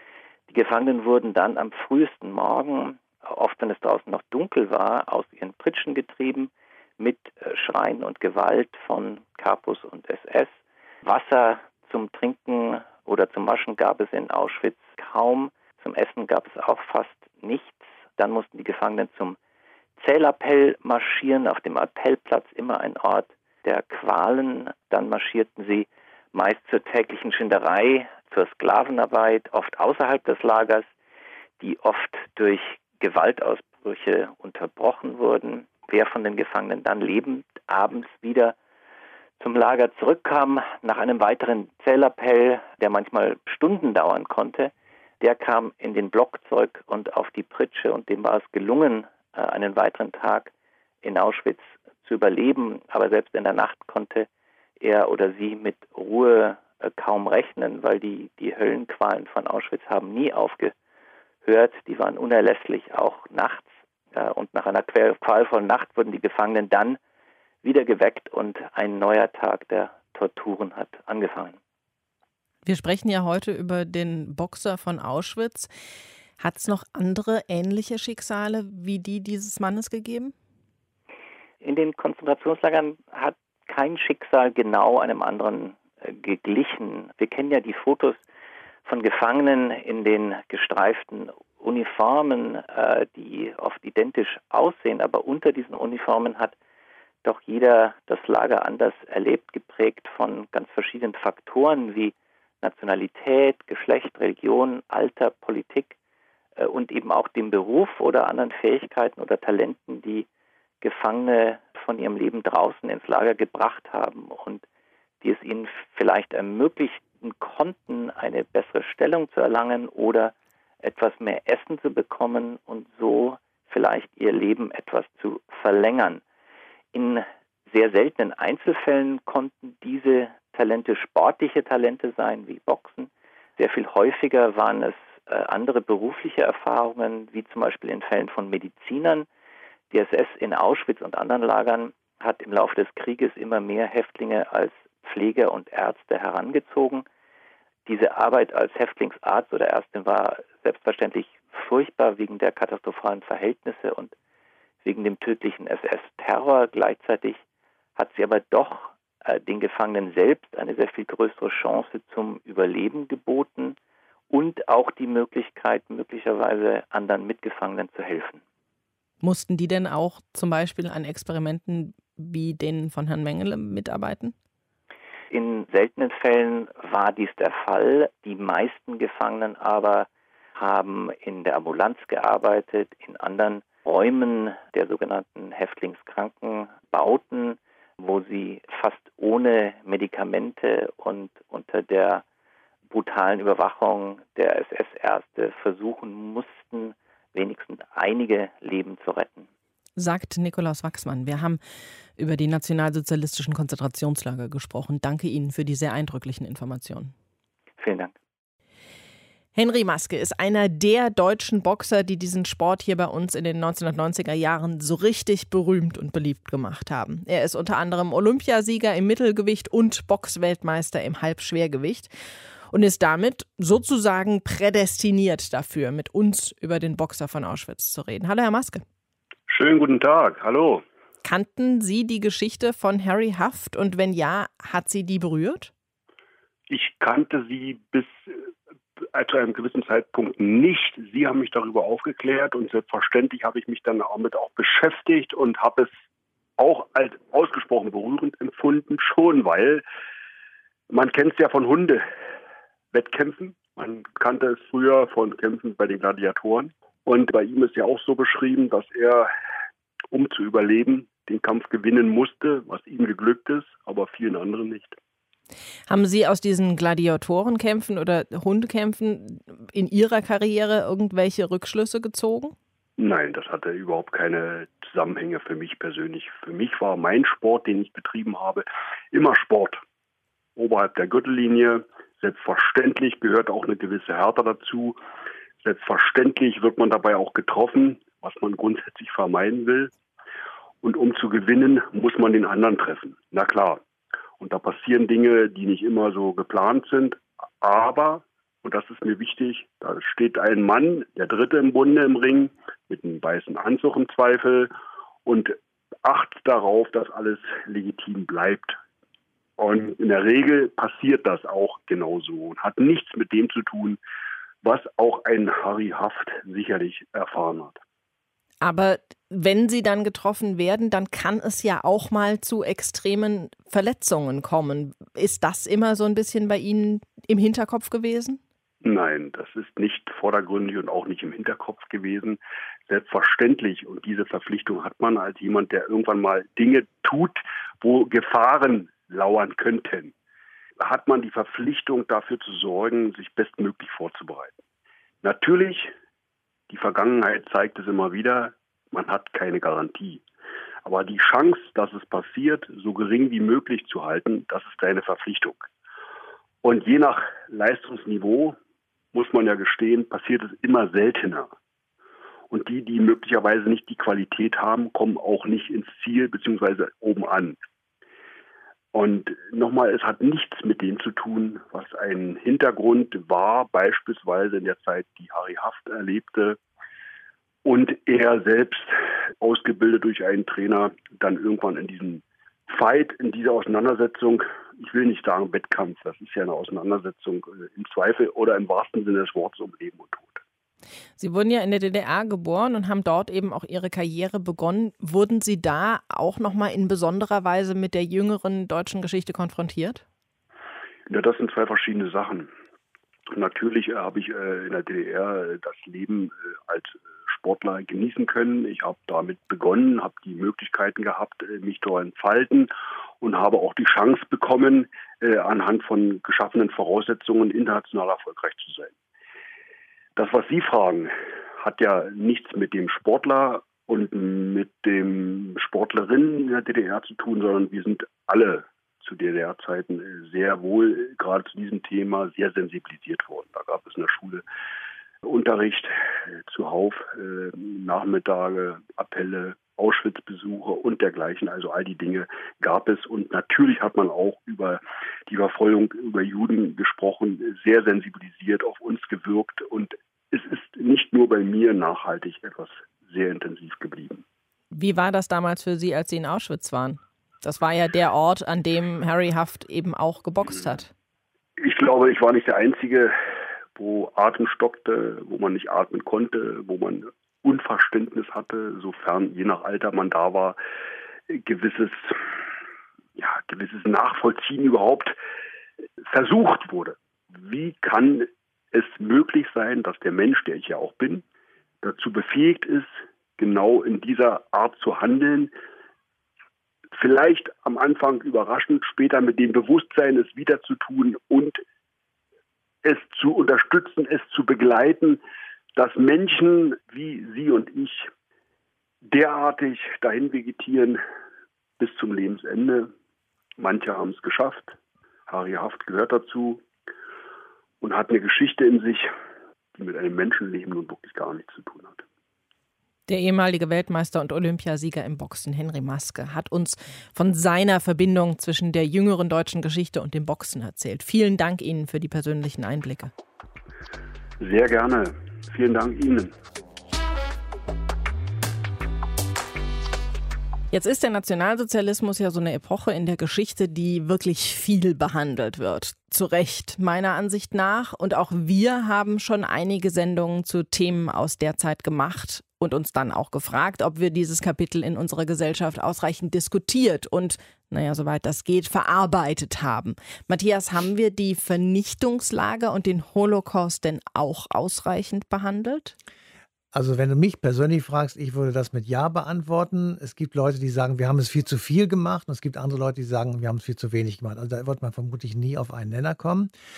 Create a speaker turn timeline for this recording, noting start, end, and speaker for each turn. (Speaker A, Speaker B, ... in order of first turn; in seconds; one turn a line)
Speaker A: 0.5-19.4
Speaker A: 20.0-30.9
Speaker A: 31.6-38.5
Speaker A: 39.4-50.5
Speaker A: 51.0-54.3
Speaker A: 54.8-60.7
Speaker A: 61.5-67.0
Speaker A: 67.6-71.6
Speaker B: 72.7-75.7
Speaker B: 76.4-80.3
Speaker A: 81.6-88.2
Speaker A: 88.8-96.5
Speaker A: 97.2-106.0
Speaker A: 106.6-110.3
Speaker A: 110.8-114.6
Speaker A: 115.2-126.2
Speaker A: 126.9-139.3
Speaker A: 139.9-147.1
Speaker A: 147.9-154.1
Speaker A: 154.8-157.4
Speaker A: 158.0-163.8
Speaker A: 164.3-168.4
Speaker B: 169.2-174.3
Speaker A: 175.3-192.2
Speaker A: 192.9-199.5
Speaker B: 200.0-201.6
Speaker B: 202.2-207.1
Speaker A: 207.8-208.2
Speaker B: 209.6-222.1
Speaker B: 222.7-228.8
Speaker C: 229.5-230.8
Speaker B: 231.2-235.7
Speaker C: 236.7-238.3
Speaker C: 239.1-245.9
Speaker C: 246.6-249.8
Speaker C: 250.9-252.0
Speaker C: 252.9-259.3
Speaker C: 260.1-265.0
Speaker B: 265.9-272.6
Speaker C: 273.0-279.8
Speaker C: 280.6-285.0
Speaker C: 285.6-289.9
Speaker C: 290.8-293.8
Speaker C: 294.4-304.7
Speaker C: 305.3-308.8
Speaker C: 309.6-314.0
Speaker C: 314.6-317.8
Speaker B: 318.6-328.4
Speaker C: 328.8-340.1
Speaker C: 340.8-344.6
Speaker C: 345.2-345.9
Speaker C: 346.7-350.2
Speaker C: 350.9-355.7
Speaker C: 356.6-358.6
Speaker C: 359.1-361.5
Speaker C: 362.5-367.6
Speaker C: 368.9-376.6
Speaker C: 377.6-390.4
Speaker B: 391.2-400.0
Speaker C: 401.1-402.5
Speaker C: 403.3-418.9
Speaker C: 420.2-434.4
Speaker C: 435.2-454.2
Speaker B: 454.7-460.9
Speaker C: 461.6-463.1
Speaker C: 463.8-470.6
Speaker C: 471.3-472.2
Speaker C: 473.2-475.2
Speaker C: 476.1-481.2
Speaker C: 481.8-485.5
Speaker C: 486.9-491.6
Speaker C: 492.8-495.2
Speaker C: 495.8-498.1
Speaker C: 499.1-501.0
Speaker C: 501.8-502.9
Speaker C: 503.6-504.8
Speaker C: 505.3-506.6
Speaker C: 507.8-509.1
Speaker C: 509.8-512.0
Speaker B: 513.1-523.1
Speaker C: 524.4-526.3
Speaker B: 530.7-556.0
Speaker D: 556.7-566.5